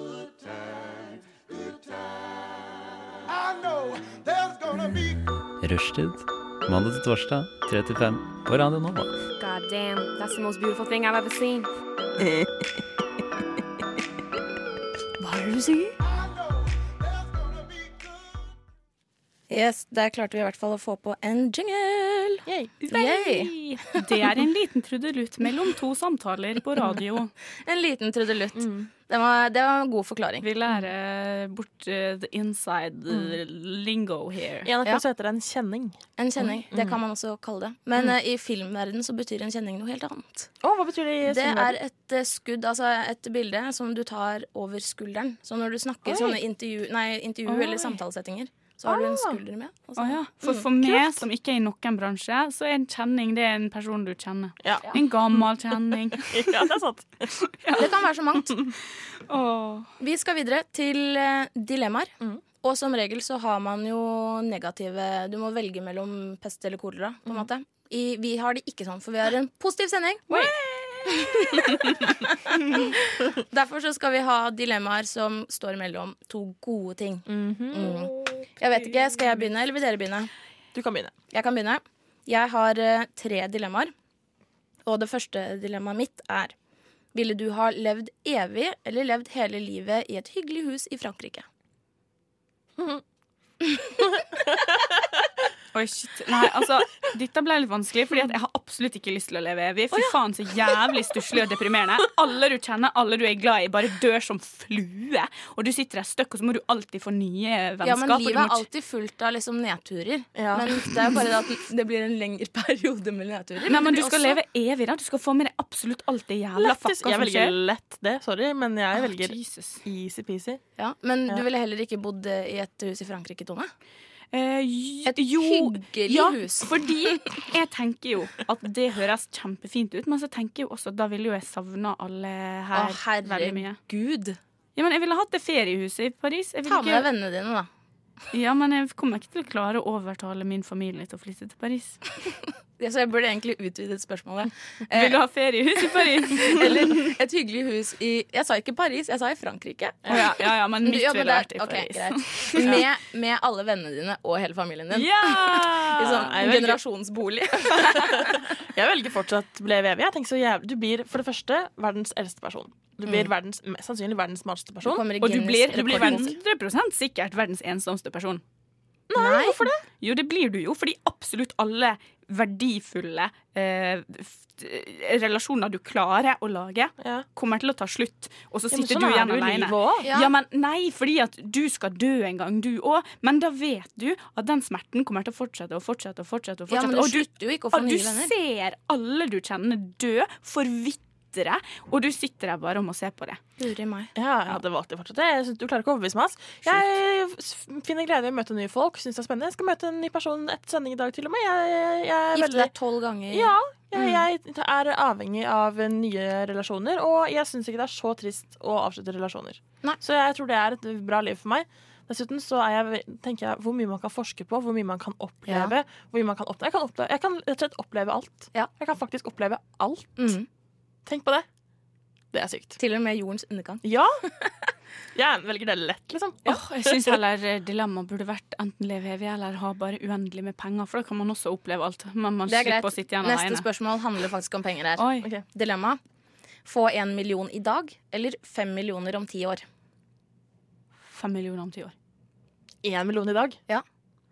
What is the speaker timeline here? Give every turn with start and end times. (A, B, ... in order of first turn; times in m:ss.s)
0:04.7-0:09.2 A
0:09.4-0:11.7 B
0:19.5-0:23.5 C
0:22.4-0:22.7 D
0:22.8-0:27.3 E
0:27.6-0:30.5 C
0:28.5-0:28.9 D
0:30.4-0:34.7 E
0:33.1-0:33.4 D
0:34.6-0:36.0 D
0:36.2-0:40.5 C
0:36.7-0:37.0 D
0:40.6-0:41.8 D
0:41.2-0:50.6 C
0:46.0-0:46.4 D
0:47.5-0:47.9 E
0:48.8-0:49.4 D
0:50.0-0:56.7 E
0:50.8-0:51.2 D
0:54.6-0:57.3 D
0:57.4-0:58.0 E
0:57.8-0:58.5 C
0:59.3-0:59.9 E
1:00.0-1:10.3 C
1:10.3-1:12.0 E
1:11.1-1:12.0 C
1:12.7-1:12.9 E
1:12.7-1:20.3 C
1:17.3-1:18.0 D
1:17.8-1:19.4 E
1:20.7-1:21.1 D
1:21.3-1:23.9 C
1:24.8-1:26.5 C
1:27.1-1:31.4 C
1:34.3-1:35.0 D
1:35.7-1:48.6 E
1:47.8-1:54.4 C
1:50.3-1:50.7 D
1:53.7-1:57.6 E
1:56.6-2:00.6 D
1:59.0-1:59.8 E
2:00.8-2:03.7 C
2:04.3-2:13.8 E
2:05.0-2:06.7 C
2:12.7-2:14.4 C
2:14.8-2:17.1 E
2:16.7-2:17.7 C
2:18.3-2:22.0 E
2:22.8-2:25.2 C
2:24.9-2:27.1 E
2:26.3-2:30.3 C
2:30.0-2:30.3 D
2:30.1-2:32.8 E
2:30.8-2:38.4 C
2:32.6-2:32.8 D
2:34.9-2:36.4 E
2:36.0-2:36.8 D
2:37.9-2:45.1 D
2:44.8-2:46.3 C
2:45.2-2:48.4 E
2:45.7-2:46.3 D
2:49.1-2:49.8 D
2:49.2-2:49.6 C
2:50.0-3:13.4 E
2:57.0-2:57.2 D
2:58.7-3:00.1 D
3:00.0-3:00.3 C
3:06.7-3:08.3 C
3:13.6-3:14.1 C
3:14.1-3:22.7 D
3:22.3-3:24.2 C
3:23.3-3:40.3 D
3:35.4-3:35.7 C
3:40.2-3:40.5 C
3:41.0-3:41.4 D
3:42.3-3:42.8 D
3:42.8-3:44.5 C
3:43.8-3:44.2 D
3:45.1-3:47.2 D
3:46.4-3:53.6 E
3:52.5-3:56.0 C
3:55.0-3:55.3 E
3:56.6-3:59.6 C
4:01.1-4:01.9 E
4:02.8-4:03.6 D